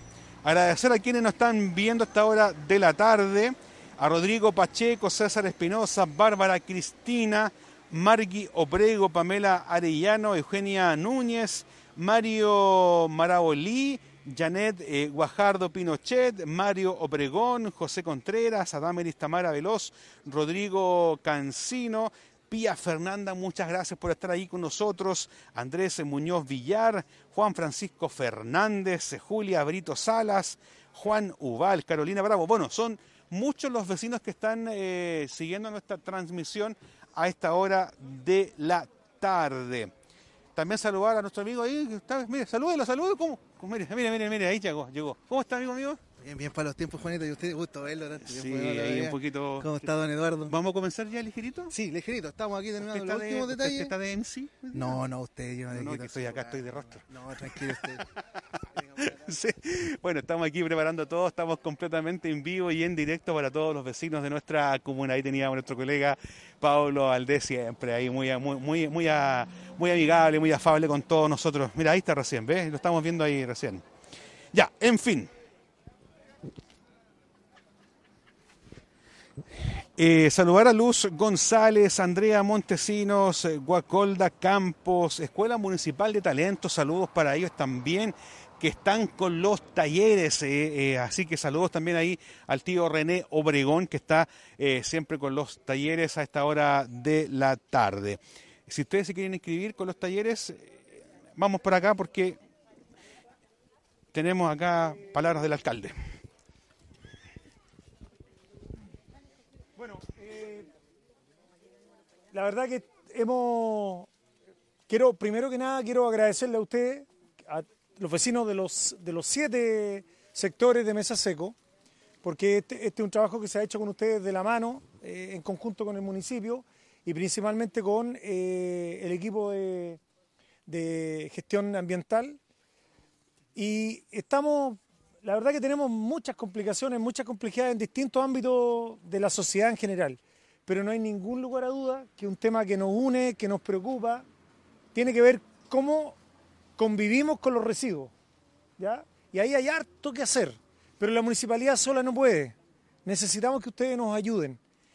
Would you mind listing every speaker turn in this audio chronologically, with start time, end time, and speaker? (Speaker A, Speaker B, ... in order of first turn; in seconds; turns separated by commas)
Speaker A: 0.4-39.9, Speaker A: 40.5-46.0, Speaker B: 46.2-50.6, Speaker A: 48.2-49.9, Speaker A: 50.5-51.7, Speaker B: 51.7-53.9, Speaker A: 52.8-55.0, Speaker B: 54.7-58.1, Speaker A: 55.7-58.0, Speaker B: 58.7-59.1, Speaker A: 59.0-73.8, Speaker A: 74.5-75.3, Speaker A: 80.0-102.4, Speaker A: 104.1-106.0, Speaker C: 109.8-110.7, Speaker C: 112.3-114.1, Speaker C: 114.9-121.6, Speaker C: 122.2-130.0, Speaker C: 130.7-132.4, Speaker C: 133.6-144.3, Speaker C: 144.9-146.2, Speaker C: 146.8-148.1, Speaker C: 148.8-154.6